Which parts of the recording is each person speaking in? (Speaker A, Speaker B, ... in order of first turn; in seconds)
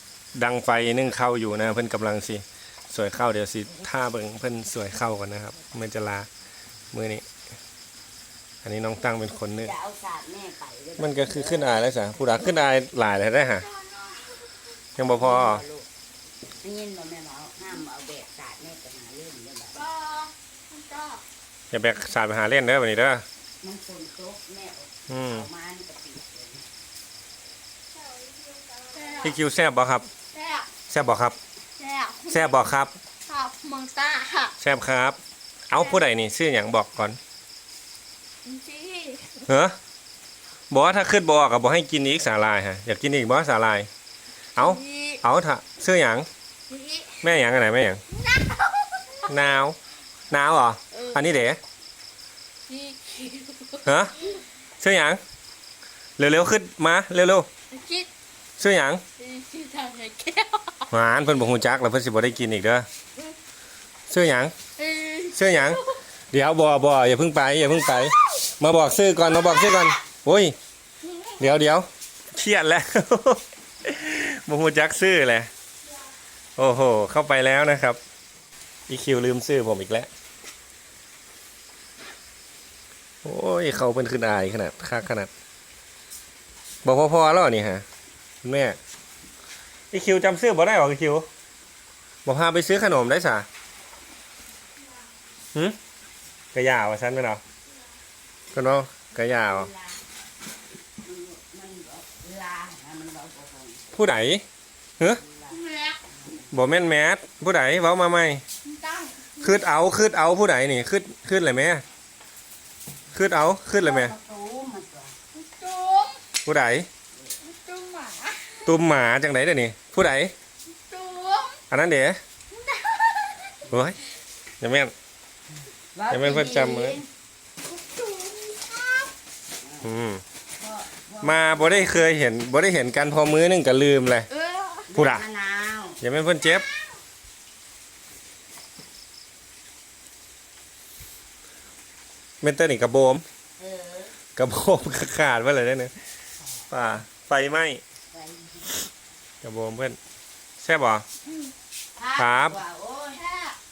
Speaker A: 0.3-6.3, 6.9-7.2, 8.6-9.7, 11.0-13.7, 15.0-15.6, 21.7-23.2, 25.1-25.5, 29.2-30.1, 30.9-31.4, 32.3-32.9, 34.6-35.2, 35.7-37.2, 39.5-39.8, 40.7-43.9, 44.5-46.3, 47.2-48.0, 49.3-49.8, 50.3-51.6, 53.9-54.1, 54.8-55.2, 56.2-57.5, 58.6-59.0, 60.9-62.9, 64.1-64.5, 65.3-70.6, 71.4-75.5, 76.6-78.0, 78.9-80.1, 83.2-85.3, 86.8-87.8, 88.4-88.8, 89.9-91.3, 92.2-93.5, 96.5-97.4, 98.5-99.7, 103.9-104.4, 106.5-108.4, 109.4-111.8, 113.1-114.1, 116.4-116.9, 118.6-120.3, 121.7-122.2, 123.7-124.0, 124.6-124.9, 126.1-127.0, 129.8-130.2, 131.2-134.3, 134.9-135.2, 136.0-136.6, 142.4-143.2, 144.3-145.9, 146.7-147.8, 149.4-150.0, 150.6-151.0, 152.2-152.6
Speaker B: 9.6-11.9, 15.1-15.9, 16.6-19.9, 23.6-26.6, 99.3-100.0, 101.0-103.9, 105.0-106.5, 113.7-115.2, 125.9-127.1, 129.6-129.9, 130.6-132.1, 134.9-136.0, 143.6-144.1, 146.4-146.7, 148.1-148.7, 152.0-153.2
Speaker C: 13.6-14.6, 19.8-21.2, 27.9-29.4, 30.3-30.7, 31.8-32.5, 33.3-34.5, 35.7-36.0, 38.4-39.4, 44.6-45.2, 46.7-47.3, 48.1-49.5, 50.9-51.4, 52.7-53.9, 57.7-58.1, 59.2-60.9, 64.8-65.9, 69.4-69.8, 71.1-71.3, 105.5-106.0, 108.6-109.7, 115.3-116.2, 117.4-118.7, 120.8-121.6, 122.6-123.6, 127.7-129.1, 134.3-134.9, 153.2-153.6